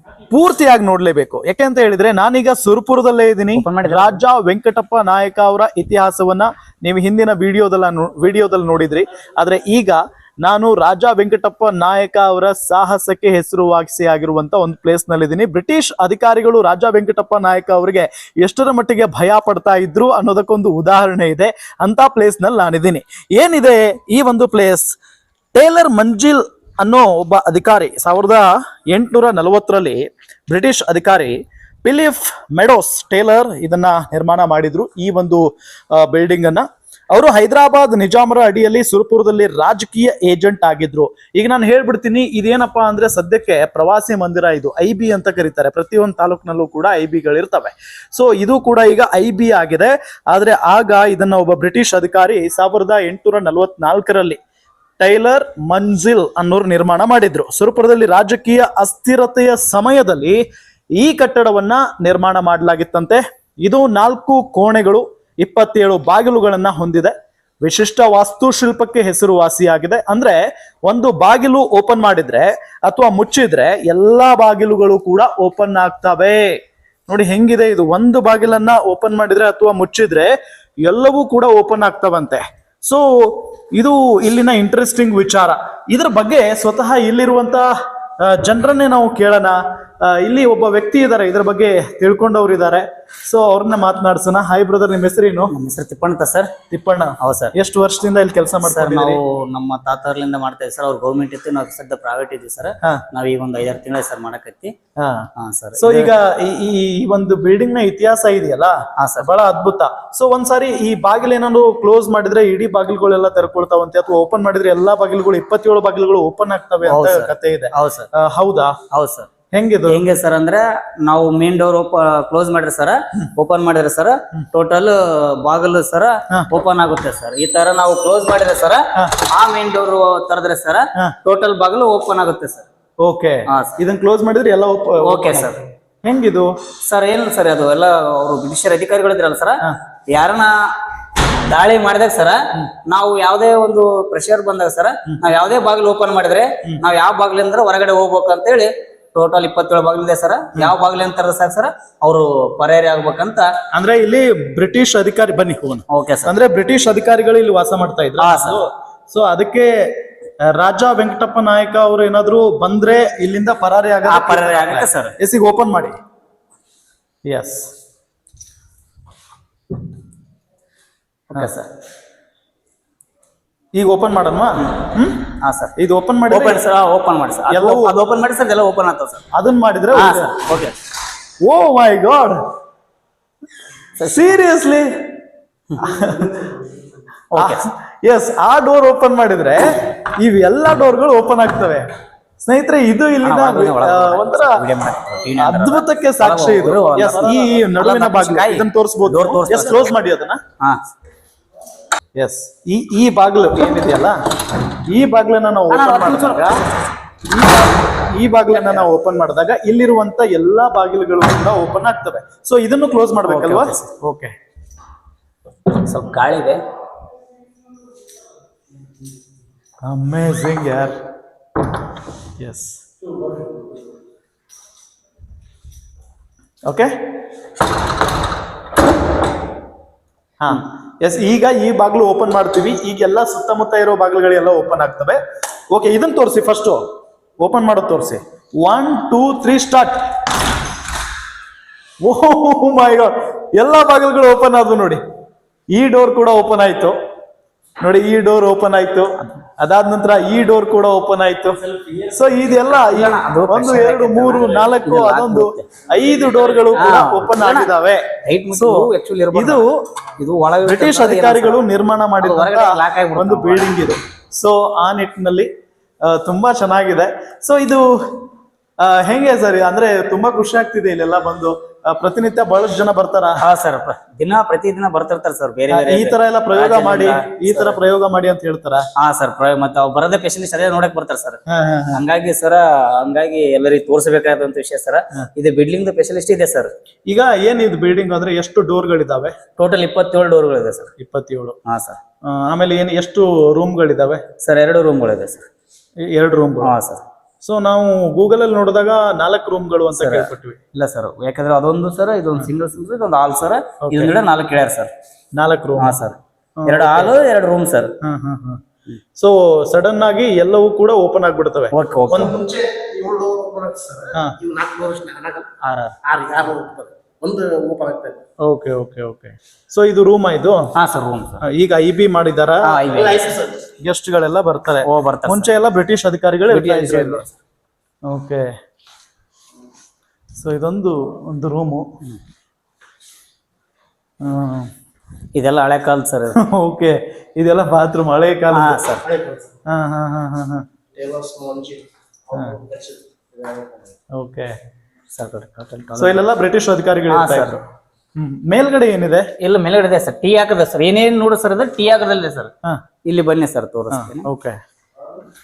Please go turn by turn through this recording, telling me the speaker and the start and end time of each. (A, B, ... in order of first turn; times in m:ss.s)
0:00.3-0:25.0 A
0:03.6-0:04.2 B
0:25.5-0:54.4 A
0:55.0-1:00.4 A
1:01.0-1:27.7 A
1:28.2-1:35.5 A
1:35.5-1:36.7 B
1:36.7-1:39.2 A
1:37.2-1:37.6 B
1:38.6-1:44.7 B
1:45.0-1:58.8 A
1:45.4-1:46.1 B
1:49.0-1:49.3 B
1:56.8-1:58.1 B
1:58.9-1:59.3 B
1:59.5-2:00.1 A
1:59.9-2:12.7 B
2:13.0-2:16.5 A
2:13.5-2:13.8 B
2:15.0-2:15.6 B
2:16.9-2:19.6 B
2:20.1-2:20.7 B
2:21.5-2:33.5 B
2:33.7-2:46.0 A
2:35.9-2:36.3 B
2:38.2-2:38.6 B
2:44.0-2:45.2 B
2:47.2-2:47.7 A
2:51.3-2:51.7 B
2:53.7-2:56.7 A
2:55.4-2:55.7 B
2:56.3-2:59.2 B
2:57.5-2:58.2 A
2:59.3-3:00.4 A
3:00.0-3:00.8 B
3:01.4-3:02.4 A
3:04.0-3:04.9 A
3:05.8-3:06.5 A
3:07.3-3:07.7 B
3:07.4-3:11.9 A
3:12.4-3:14.6 A
3:13.2-3:19.9 B
3:15.4-3:20.4 A
3:22.2-3:24.2 A
3:24.9-3:26.6 A
3:25.7-3:26.7 B
3:27.2-3:34.3 A
3:28.5-3:28.9 B
3:33.2-3:34.0 B
3:35.7-3:36.6 B
3:39.8-3:41.0 A
3:42.4-3:42.8 A
3:46.7-3:47.0 A
3:50.4-3:56.9 A
3:57.4-4:00.1 A
4:02.0-4:05.0 A
4:05.7-4:07.0 A
4:07.8-4:19.8 A
4:11.8-4:15.8 B
4:16.7-4:17.7 B
4:18.2-4:19.6 B
4:20.2-4:21.7 B
4:20.6-4:25.5 A
4:22.2-4:23.8 B
4:26.0-4:28.3 A
4:28.8-4:33.4 A
4:33.4-4:37.8 B
4:35.7-4:38.8 A
4:39.0-4:41.4 B
4:41.5-4:42.0 A
4:41.9-4:46.7 B
4:47.1-4:49.4 A
4:49.5-4:50.9 B
4:51.0-4:51.6 A
4:51.7-4:52.0 B
4:52.2-4:54.2 A
4:54.4-4:55.4 B
4:56.0-4:56.8 A
4:56.6-4:57.0 B
4:57.4-5:00.6 A
4:59.9-5:04.9 B
5:03.8-5:04.2 A
5:05.4-5:06.0 A
5:05.8-5:07.9 B
5:06.6-5:07.2 A
5:08.0-5:08.6 A
5:09.2-5:12.3 A
5:11.7-5:12.4 B
5:12.3-5:15.5 C
5:14.1-5:14.4 A
5:15.6-5:16.0 B
5:16.0-5:18.2 C
5:18.4-5:20.6 A
5:20.8-5:21.4 B
5:21.4-5:22.8 A
5:22.6-5:23.5 B
5:23.7-5:27.2 A
5:24.8-5:25.5 B
5:26.5-5:27.4 B
5:28.1-5:28.5 A
5:30.4-5:31.8 A
5:34.2-5:34.7 A
5:35.4-5:36.4 B
5:36.3-5:38.9 A
5:38.5-5:39.1 B
5:39.7-5:40.7 A
5:41.0-5:43.7 C
5:44.2-5:44.5 A
5:45.1-5:46.2 B
5:46.0-5:47.6 A
5:47.1-5:47.6 B
5:48.2-5:49.3 A
5:49.4-5:52.5 B
5:53.0-5:54.3 B
5:53.9-5:54.6 A